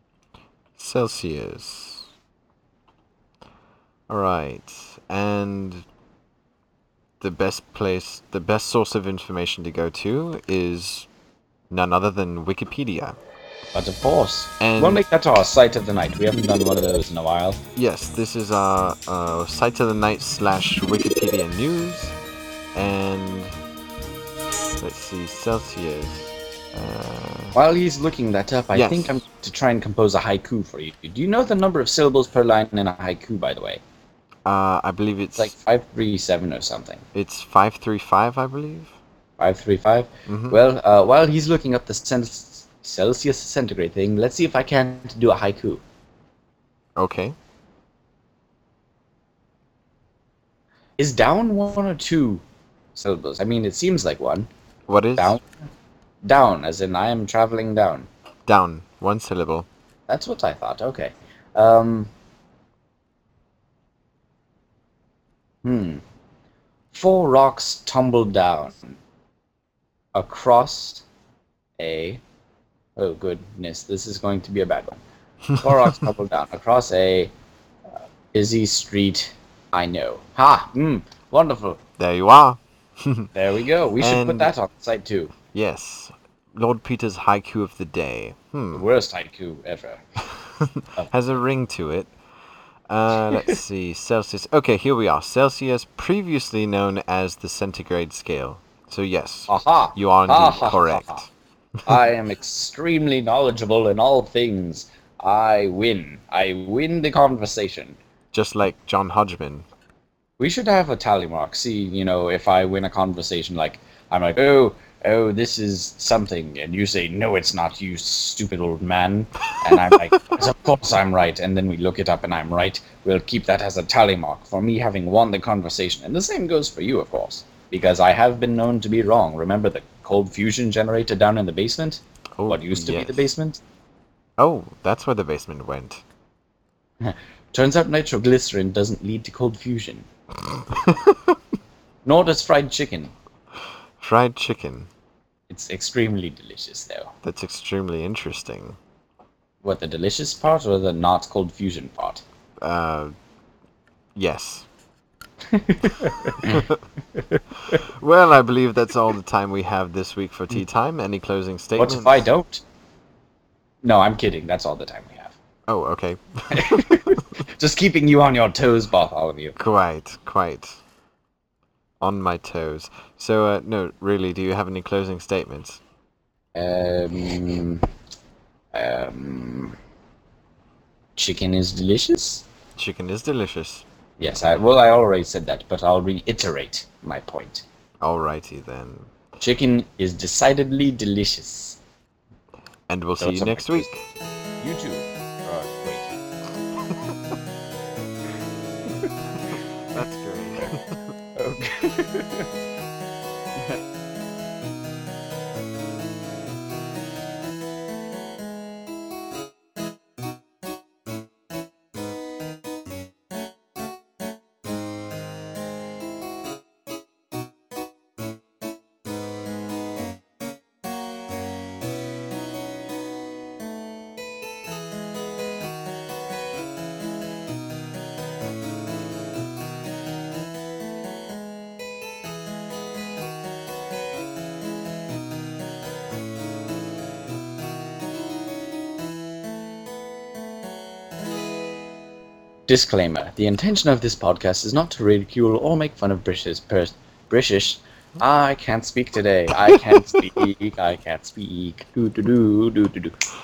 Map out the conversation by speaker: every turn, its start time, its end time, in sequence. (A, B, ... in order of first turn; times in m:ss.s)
0:00.8-0:02.1 A
0:04.1-0:05.9 A
0:07.2-0:11.1 A
0:11.7-0:13.2 A
0:13.7-0:17.6 B
0:14.6-0:15.0 A
0:17.8-0:22.1 A
0:22.7-0:23.5 A
0:24.8-0:27.6 A
0:27.5-0:33.8 B
0:28.7-0:29.2 A
0:34.4-0:35.5 A
0:35.4-0:37.0 B
0:37.1-0:39.0 A
0:39.4-0:45.8 B
0:40.3-0:40.6 A
0:47.0-0:47.4 A
0:51.0-0:52.4 B
0:52.9-0:54.5 B
0:54.9-0:55.4 A
0:55.2-0:55.5 B
0:56.2-0:58.1 B
0:58.5-0:59.7 A
1:00.1-1:02.1 B
1:05.6-1:06.0 B
1:06.9-1:09.0 B
1:10.1-1:11.0 B
1:11.8-1:12.2 B
1:13.0-1:15.0 B
1:15.6-1:17.3 B
1:18.3-1:21.8 B
1:22.0-1:23.3 A
1:23.3-1:25.3 B
1:24.0-1:24.5 A
1:25.5-1:28.8 A
1:28.7-1:30.0 B
1:30.6-1:32.1 A
1:32.9-1:41.3 A
1:39.5-1:41.2 B
1:41.8-1:48.0 B
1:48.3-1:49.6 A
1:50.4-2:13.6 B
2:12.4-2:13.3 A
2:14.4-2:16.0 A
2:17.0-2:20.1 B
2:20.7-2:21.3 A
2:22.0-2:23.1 B
2:24.0-2:24.9 A
2:25.5-2:27.1 B
2:27.2-2:28.8 A
2:29.6-2:32.2 B
2:32.6-2:33.1 A
2:34.2-2:34.7 A
2:35.5-2:36.7 B
2:36.4-2:36.7 A
2:37.7-2:42.2 A
2:41.8-2:42.6 B
2:43.8-2:45.4 B
2:45.7-2:47.2 A
2:46.6-2:49.6 B
2:49.6-2:50.8 A
2:52.0-2:55.8 A
2:56.6-2:57.8 B
2:58.7-2:59.8 B
3:01.2-3:02.4 B
3:02.8-3:03.8 A
3:04.2-3:07.6 B
3:08.0-3:09.1 A
3:09.4-3:11.8 B
3:12.9-3:14.1 A
3:13.2-3:13.9 B
3:14.6-3:16.2 B
3:19.1-3:20.0 B
3:19.9-3:21.0 A
3:21.4-3:22.5 B
4:02.7-4:13.2 B
4:09.7-4:10.4 A